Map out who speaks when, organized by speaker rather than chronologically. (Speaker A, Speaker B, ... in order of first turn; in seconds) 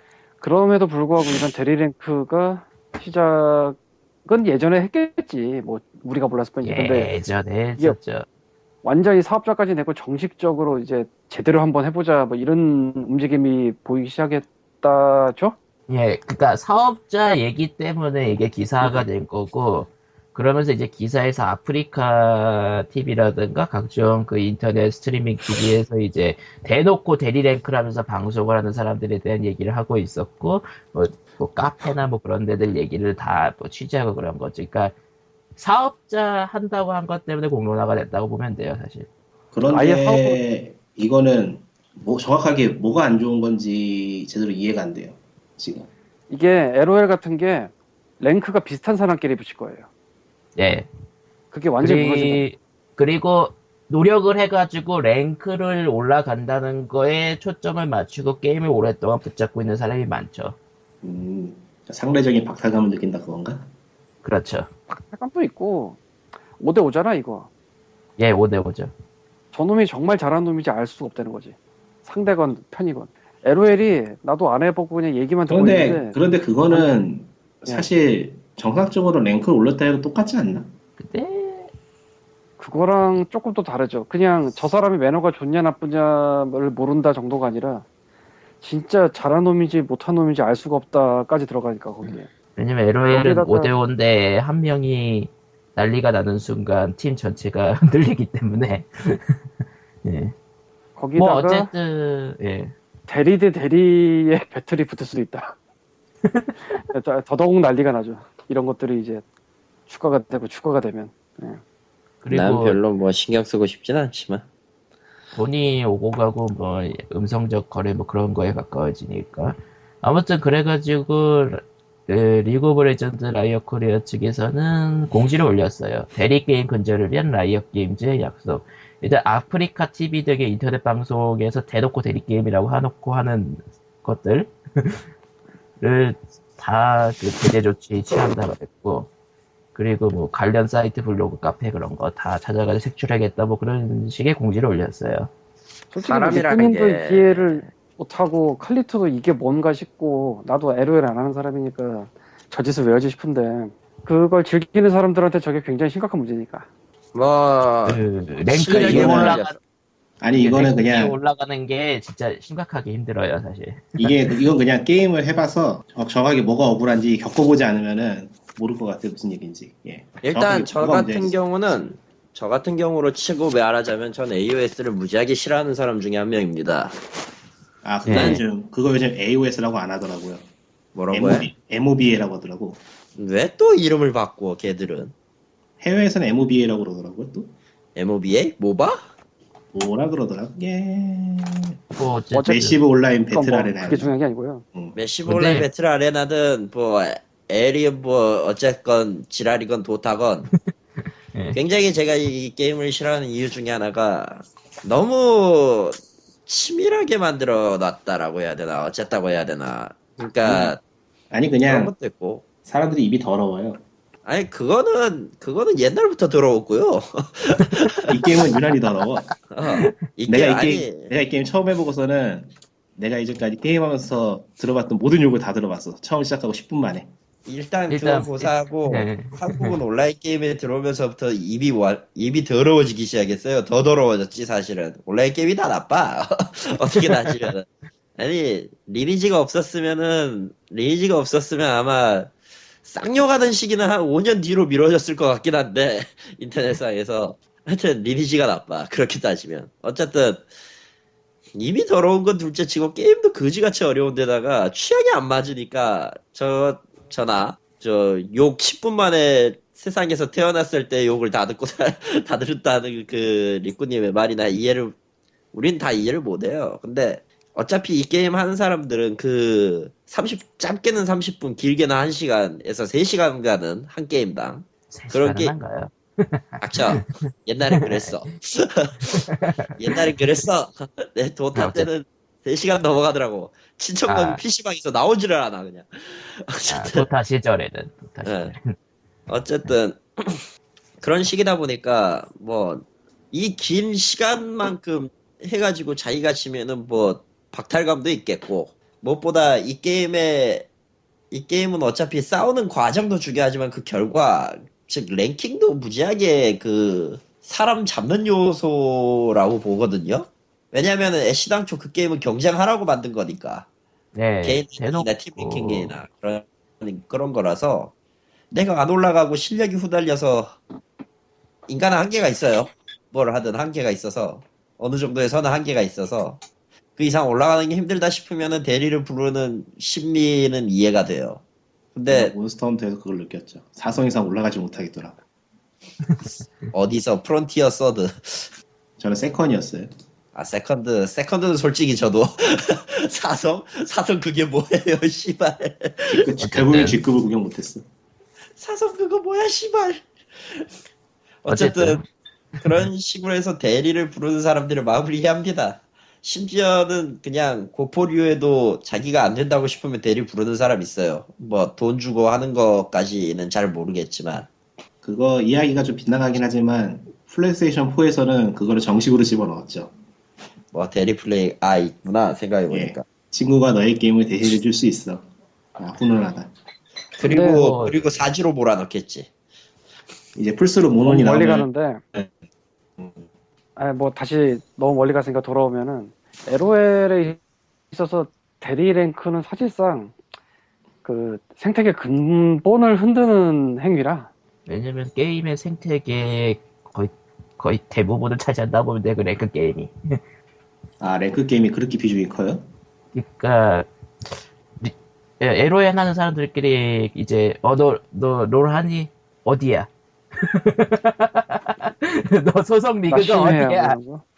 Speaker A: 0.4-7.1, 8.8-15.6, 39.7-40.4, 46.3-49.9, 51.5-52.5, 64.9-66.0, 66.6-67.5, 69.5-76.2, 82.6-87.8, 88.6-92.3, 93.1-93.7, 101.0-101.7, 103.1-105.6, 106.9-109.2, 109.9-111.6, 145.9-156.7, 192.3-192.7, 193.3-194.6, 377.2-377.6, 381.0-382.0, 383.8-387.4, 387.9-390.1, 391.1-394.3, 413.1-414.2
Speaker B: 6.6-8.3, 15.9-34.9, 35.6-39.1, 50.6-50.9, 51.8-60.6, 64.2-64.7, 68.2-68.9, 81.0-81.7, 92.6-99.4, 100.0-100.3, 101.2-102.7, 106.2-106.6, 112.2-112.8, 115.3-135.0, 135.8-139.1, 139.8-145.3, 157.9-159.6, 160.3-164.2, 178.1-178.4, 192.0-192.8, 195.3-195.7, 201.3-201.6, 219.7-219.9, 227.9-229.8, 236.9-237.4, 274.9-277.1, 277.8-278.2, 279.1-280.1, 281.6-281.9, 284.1-284.4, 286.7-288.8, 314.1-315.9, 346.4-347.0, 351.5-352.0, 377.4-378.1, 394.7-400.2, 403.1-403.9, 404.8-409.9, 410.4-414.0
Speaker C: 39.5-45.9, 61.0-63.7, 75.5-80.7, 158.8-159.4, 160.2-161.2, 164.0-171.4, 177.8-180.4, 181.1-182.8, 185.8-187.5, 189.7-191.8, 192.4-194.1, 210.4-210.7, 211.3-211.9, 212.7-213.8, 218.1-219.3, 220.3-227.1, 332.1-335.2, 339.0-339.9, 346.1-347.8, 365.0-369.9, 372.7-375.3, 375.8-376.5, 380.4-382.3, 401.0-402.7
Speaker D: 112.3-114.5, 146.0-147.6, 157.1-159.6, 170.2-177.0, 178.1-178.4, 180.9-181.5, 183.2-185.1, 187.9-189.0, 194.9-200.5, 201.5-210.8, 211.7-212.4, 214.2-218.1, 219.5-221.1, 227.5-242.3, 242.8-250.5, 251.6-264.9, 265.5-275.5, 276.6-279.2, 279.8-287.1, 288.2-288.5, 289.3-290.4, 291.0-300.7, 301.3-313.7, 314.4-317.9, 318.5-320.6, 321.7-326.4, 327.0-331.4, 331.9-332.3, 336.7-338.5, 340.3-346.3, 348.6-350.7, 351.4-352.0, 352.6-364.5, 370.7-373.1, 377.2-379.3